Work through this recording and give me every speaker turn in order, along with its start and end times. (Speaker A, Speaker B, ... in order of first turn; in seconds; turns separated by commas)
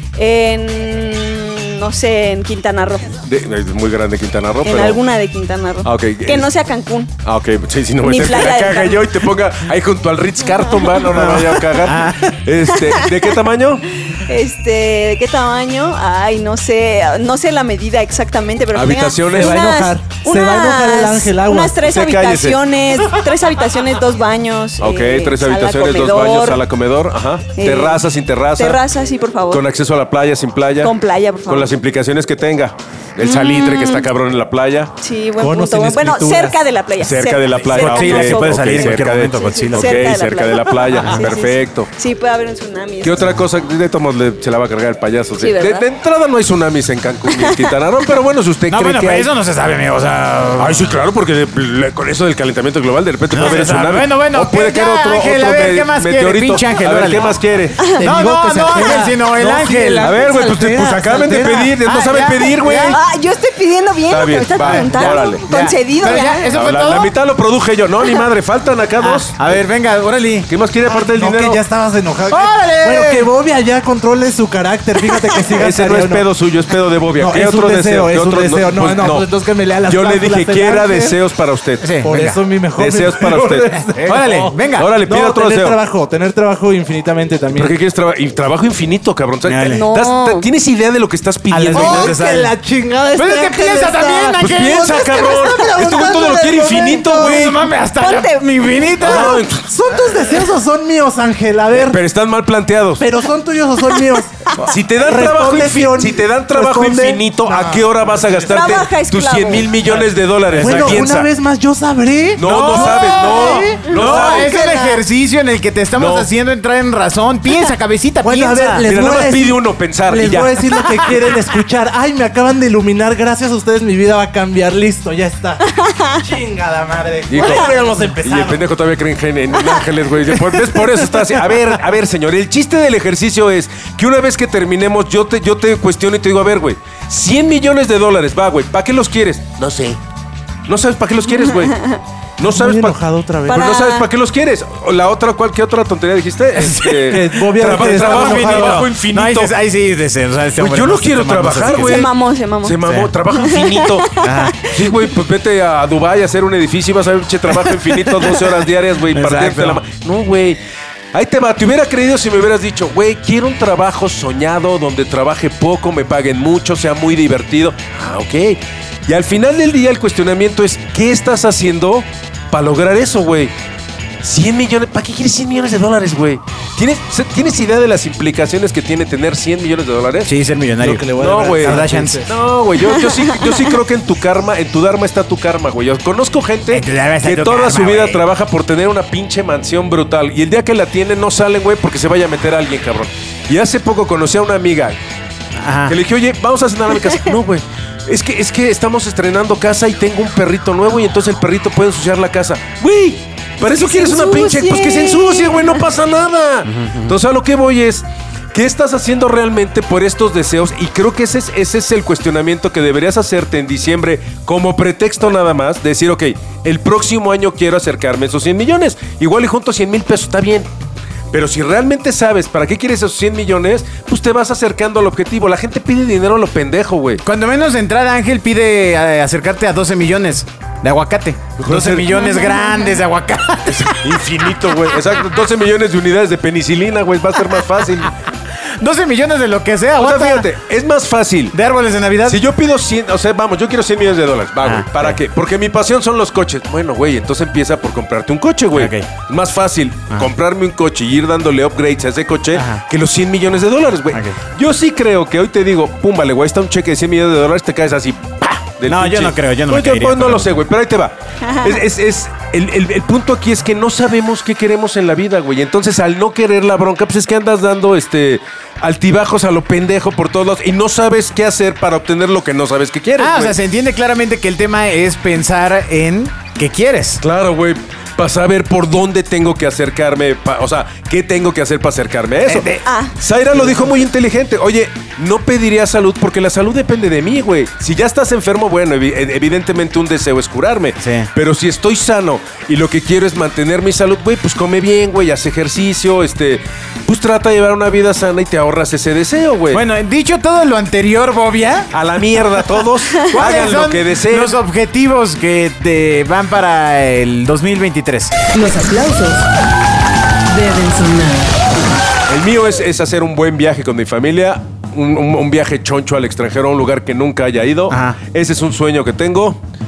Speaker A: 0.2-3.2, Speaker B: 3.2-5.0, Speaker A: 4.6-7.1, Speaker B: 5.8-6.5, Speaker B: 7.2-13.9, Speaker A: 8.0-9.1, Speaker C: 11.1-12.3, Speaker A: 14.1-26.6, Speaker B: 18.7-19.7, Speaker D: 19.3-22.0, Speaker B: 21.9-22.6, Speaker B: 24.8-28.8, Speaker A: 27.6-29.7, Speaker B: 29.5-30.9, Speaker A: 30.8-31.7, Speaker B: 31.5-34.9, Speaker A: 33.2-34.1, Speaker A: 35.0-43.3, Speaker D: 35.4-36.6, Speaker B: 37.0-41.9, Speaker C: 37.7-40.0, Speaker C: 41.0-41.3, Speaker B: 43.0-49.3, Speaker A: 45.4-45.9, Speaker A: 47.3-47.7, Speaker C: 48.7-51.0, Speaker B: 50.6-57.8, Speaker C: 53.3-57.4, Speaker A: 57.8-58.1, Speaker C: 57.9-60.2, Speaker D: 58.0-61.8, Speaker B: 60.0-63.0, Speaker C: 61.6-63.0, Speaker A: 62.9-66.5, Speaker B: 64.1-65.4, Speaker C: 64.6-67.2, Speaker B: 66.5-69.5, Speaker C: 69.0-70.5, Speaker B: 70.5-71.6, Speaker D: 70.9-76.3, Speaker C: 72.3-73.3, Speaker B: 75.5-79.3, Speaker D: 77.1-81.2, Speaker B: 79.8-81.9, Speaker C: 81.8-82.4, Speaker D: 82.0-87.8, Speaker B: 82.7-83.7, Speaker C: 83.8-84.9, Speaker B: 84.8-85.8, Speaker B: 87.5-92.2, Speaker C: 89.5-89.9, Speaker A: 89.7-90.5, Speaker C: 91.5-92.5, Speaker D: 91.6-97.7, Speaker C: 93.1-95.8, Speaker B: 94.4-97.6, Speaker C: 97.1-99.5, Speaker A: 98.0-98.8, Speaker B: 99.0-99.7, Speaker D: 99.0-102.0, Speaker B: 101.7-103.1, Speaker D: 103.0-108.9, Speaker B: 104.6-111.3, Speaker A: 108.5-109.7, Speaker D: 109.9-113.9, Speaker C: 110.6-111.1, Speaker B: 112.4-114.6, Speaker C: 112.4-118.9, Speaker A: 113.9-115.0, Speaker B: 116.0-116.3, Speaker D: 118.2-125.7, Speaker B: 118.9-120.7, Speaker A: 125.7-126.2, Speaker D: 126.2-128.7, Speaker B: 127.3-127.7, Speaker A: 127.4-128.1, Speaker B: 128.2-140.0, Speaker C: 130.7-131.2, Speaker B: 140.7-149.5, Speaker A: 141.5-142.0, Speaker D: 142.4-143.7, Speaker A: 143.5-144.1, Speaker C: 146.6-152.1, Speaker D: 147.1-148.8, Speaker B: 150.6-154.1, Speaker A: 151.7-154.7, Speaker C: 152.8-153.1, Speaker C: 154.2-154.6, Speaker B: 154.7-160.6, Speaker C: 157.5-157.9, Speaker C: 159.1-159.8, Speaker B: 161.1-173.5, Speaker B: 174.2-180.3, Speaker C: 180.2-182.2, Speaker D: 180.8-182.3, Speaker B: 181.2-195.0, Speaker C: 186.7-188.2, Speaker C: 195.6-196.0, Speaker B: 195.9-220.7, Speaker A: 203.6-205.8, Speaker C: 206.7-207.1, Speaker B: 221.3-227.2, Speaker C: 227.2-234.2, Speaker B: 231.6-232.3, Speaker B: 233.7-238.2, Speaker C: 238.8-240.5, Speaker B: 240.0-241.6, Speaker C: 241.5-242.4, Speaker B: 242.2-273.6, Speaker C: 244.6-245.2, Speaker C: 248.7-249.1, Speaker C: 252.5-252.8, Speaker C: 254.1-254.4, Speaker C: 258.9-260.6, Speaker A: 261.4-261.8, Speaker C: 273.2-277.2, Speaker B: 277.2-299.8, Speaker C: 282.4-282.8, Speaker A: 282.8-283.1, Speaker C: 283.5-283.9, Speaker C: 291.0-291.3, Speaker C: 299.7-301.9, Speaker B: 301.9-304.6, Speaker C: 303.3-308.3, Speaker E: 308.5-309.5, Speaker E: 310.5-311.6, Speaker B: 312.3-319.6, Speaker C: 317.9-318.2